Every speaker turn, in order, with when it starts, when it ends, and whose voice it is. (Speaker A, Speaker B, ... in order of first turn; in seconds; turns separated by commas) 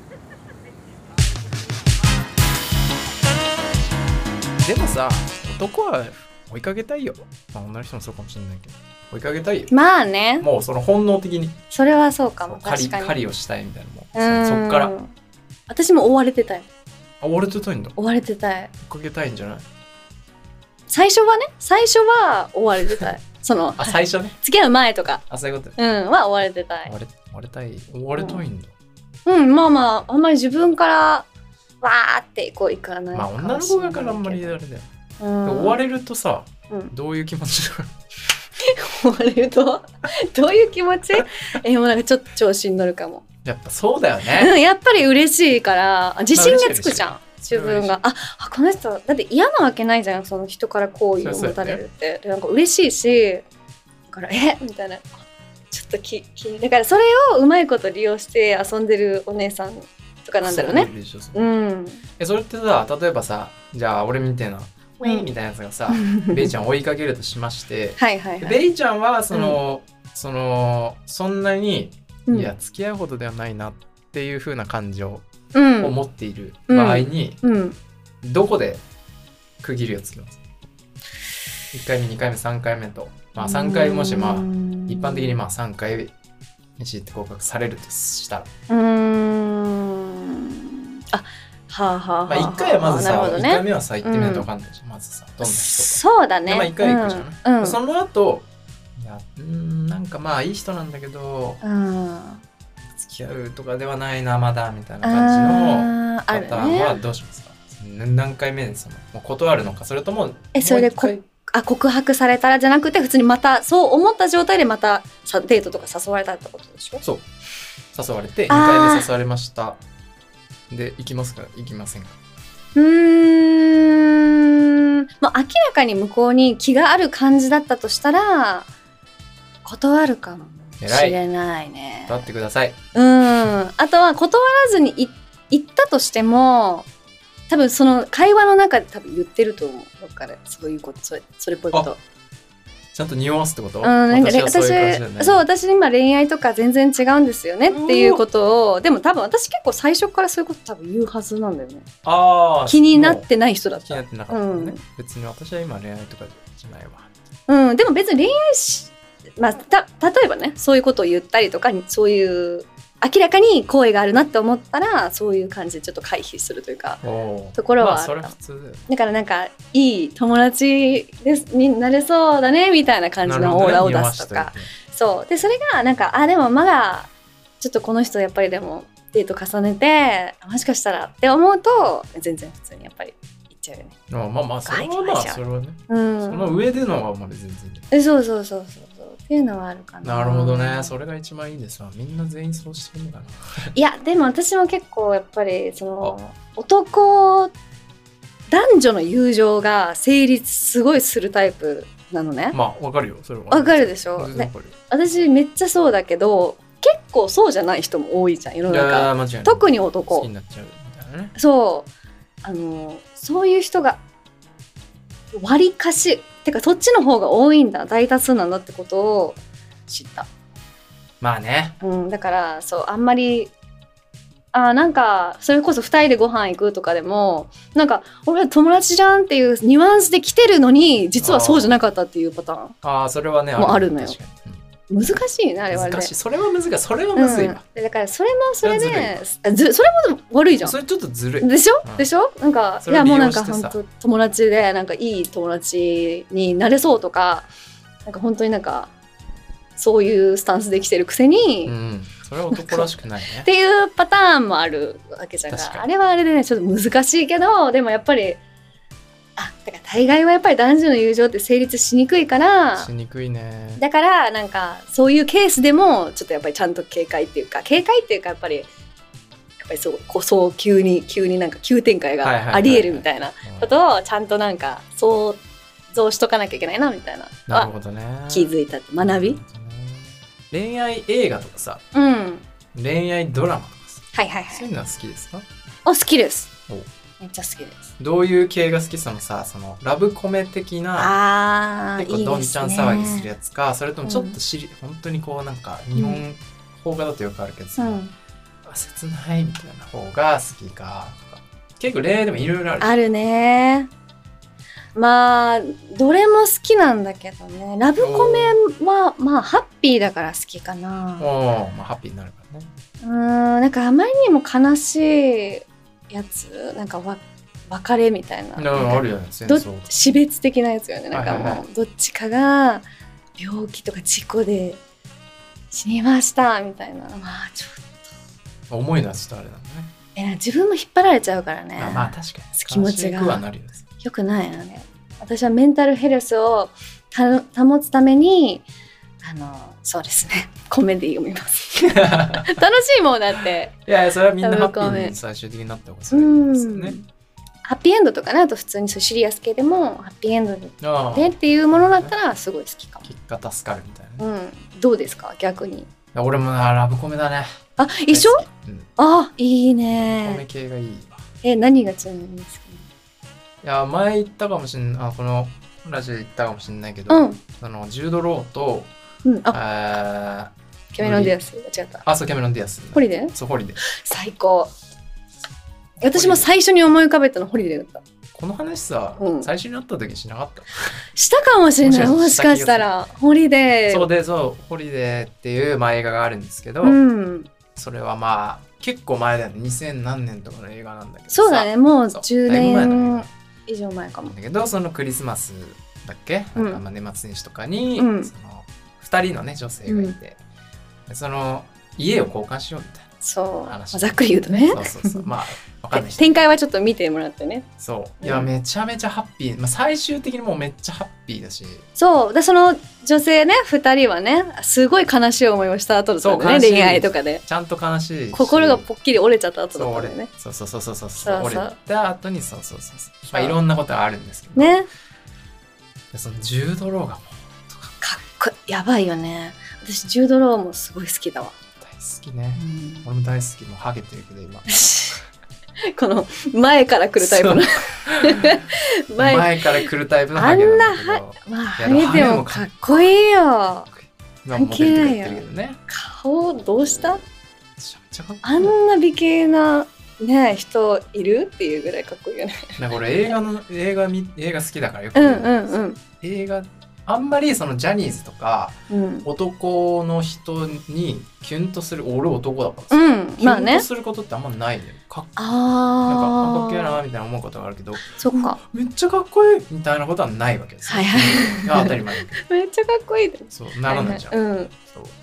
Speaker A: 4.6-9.7, Speaker B: 9.7-10.5, Speaker A: 10.4-11.6, Speaker B: 11.7-13.2, Speaker A: 12.4-14.9, Speaker B: 14.1-15.1, Speaker B: 15.7-16.6, Speaker A: 17.2-18.0, Speaker B: 18.0-18.7, Speaker A: 18.8-19.7, Speaker B: 20.9-25.2, Speaker A: 23.8-24.4, Speaker A: 25.3-25.8, Speaker B: 25.8-26.9, Speaker A: 26.9-28.7, Speaker B: 28.1-28.4, Speaker B: 29.2-31.3, Speaker B: 31.8-34.6, Speaker A: 33.1-34.9, Speaker B: 35.2-35.8, Speaker A: 35.4-37.9, Speaker B: 38.6-43.2, Speaker A: 43.4-44.5, Speaker B: 44.3-53.5, Speaker A: 46.3-48.0, Speaker A: 51.2-51.8, Speaker B: 54.1-62.0, Speaker A: 60.4-61.4, Speaker A: 62.2-75.2, Speaker B: 65.9-66.5, Speaker B: 68.0-68.6, Speaker B: 69.3-69.6, Speaker B: 75.5-76.0, Speaker A: 75.8-77.4, Speaker B: 76.7-77.8, Speaker A: 78.2-78.8, Speaker A: 79.6-80.4, Speaker A: 81.7-86.1, Speaker B: 83.4-85.4, Speaker A: 86.8-88.5, Speaker B: 88.7-94.5, Speaker A: 92.3-101.6, Speaker B: 95.4-97.8, Speaker B: 101.6-102.4, Speaker A: 103.0-111.2, Speaker B: 105.0-107.0, Speaker B: 110.5-117.0, Speaker A: 117.0-117.3, Speaker A: 117.9-119.8, Speaker B: 118.5-119.1, Speaker A: 120.7-122.2, Speaker B: 122.8-128.7, Speaker B: 129.7-132.2, Speaker A: 130.8-131.2, Speaker A: 132.1-132.8, Speaker B: 132.9-136.9, Speaker B: 137.5-142.0, Speaker A: 142.9-145.4, Speaker B: 143.8-151.9, Speaker A: 147.7-148.2, Speaker A: 152.0-153.2, Speaker B: 152.7-154.8, Speaker A: 153.8-157.1, Speaker B: 157.5-167.0, Speaker A: 167.0-168.8, Speaker B: 167.6-168.3, Speaker B: 168.9-183.9, Speaker A: 173.2-174.7, Speaker A: 184.1-187.8, Speaker B: 184.7-186.6, Speaker B: 187.9-190.9, Speaker A: 190.0-193.8, Speaker B: 193.7-197.5, Speaker B: 198.5-202.6, Speaker A: 202.5-204.8, Speaker B: 203.5-210.3, Speaker A: 208.7-211.3, Speaker B: 211.3-211.9, Speaker B: 212.4-214.0, Speaker B: 215.3-220.3, Speaker A: 221.2-221.8, Speaker B: 221.8-223.5, Speaker B: 224.5-232.8, Speaker A: 231.2-231.8, Speaker A: 232.8-234.6, Speaker B: 233.6-234.2, Speaker B: 234.9-236.1, Speaker A: 235.7-237.6, Speaker B: 237.2-240.7, Speaker A: 238.6-239.2, Speaker A: 240.6-242.1, Speaker B: 241.4-247.5, Speaker A: 242.8-243.8, Speaker B: 248.1-248.9, Speaker B: 249.8-251.8, Speaker A: 251.7-253.5, Speaker B: 252.5-252.9, Speaker B: 253.4-258.4, Speaker A: 255.5-255.8, Speaker B: 259.4-262.9, Speaker A: 262.8-263.8, Speaker B: 263.8-268.7, Speaker B: 269.6-277.7, Speaker A: 272.2-273.7, Speaker A: 277.5-281.8, Speaker B: 278.3-279.4, Speaker B: 281.9-282.4, Speaker A: 282.7-285.4, Speaker B: 284.1-284.6, Speaker B: 285.9-286.5, Speaker B: 287.2-287.9, Speaker A: 288.0-291.1, Speaker B: 290.9-293.3, Speaker A: 292.0-298.0, Speaker B: 294.0-294.4, Speaker B: 295.9-296.2, Speaker B: 297.8-298.1, Speaker A: 298.6-302.9, Speaker B: 302.8-303.9, Speaker B: 304.9-311.3, Speaker A: 308.0-308.6, Speaker A: 311.2-312.7, Speaker B: 313.0-322.9, Speaker A: 318.6-320.0, Speaker A: 321.1-321.6, Speaker B: 323.4-324.8, Speaker B: 325.7-327.9, Speaker A: 328.7-329.9, Speaker B: 330.1-333.4, Speaker A: 331.8-333.8, Speaker B: 334.0-338.6, Speaker B: 339.2-343.8, Speaker A: 341.8-342.6, Speaker A: 343.9-346.9, Speaker B: 344.4-345.1, Speaker B: 346.1-347.0, Speaker B: 347.6-353.1, Speaker A: 350.8-352.1, Speaker A: 353.0-354.2, Speaker B: 354.2-355.9, Speaker A: 356.1-357.6, Speaker B: 357.8-358.4, Speaker A: 358.1-358.9, Speaker B: 359.0-360.4, Speaker A: 359.9-361.2, Speaker B: 361.4-362.9, Speaker A: 363.6-368.9, Speaker B: 367.1-367.4, Speaker B: 369.2-369.6, Speaker A: 369.5-371.4, Speaker B: 370.9-372.0, Speaker A: 372.0-373.8, Speaker B: 372.9-374.7, Speaker B: 376.0-378.0, Speaker A: 376.0-376.5, Speaker A: 378.3-381.0, Speaker B: 379.2-379.5, Speaker B: 381.1-384.1, Speaker A: 381.8-382.9, Speaker A: 383.9-387.0, Speaker B: 386.8-387.5, Speaker A: 387.7-393.3, Speaker B: 391.3-394.3, Speaker A: 394.2-400.4, Speaker B: 396.6-396.8, Speaker B: 397.9-398.3, Speaker B: 399.9-400.1, Speaker A: 401.1-403.1, Speaker B: 403.2-405.3, Speaker A: 403.6-406.5, Speaker B: 405.9-407.7, Speaker A: 407.8-411.9, Speaker B: 408.2-408.5, Speaker B: 411.9-417.4, Speaker A: 416.2-418.8, Speaker B: 418.3-420.3, Speaker A: 419.7-424.8, Speaker B: 421.2-421.7, Speaker B: 423.3-423.6, Speaker B: 424.5-424.9, Speaker A: 426.1-428.0, Speaker B: 428.0-431.6, Speaker A: 431.8-434.7, Speaker B: 432.6-433.1, Speaker B: 434.7-435.2, Speaker B: 435.9-443.9, Speaker A: 437.2-438.6, Speaker A: 439.2-442.7, Speaker A: 444.4-445.8, Speaker B: 444.5-447.2, Speaker A: 447.8-448.7, Speaker B: 448.4-452.8, Speaker A: 452.8-465.4, Speaker B: 455.1-456.0, Speaker B: 458.9-459.3, Speaker B: 462.9-463.8, Speaker B: 465.4-467.0, Speaker A: 466.1-472.4, Speaker B: 468.1-468.6, Speaker B: 470.9-474.7, Speaker A: 473.5-475.1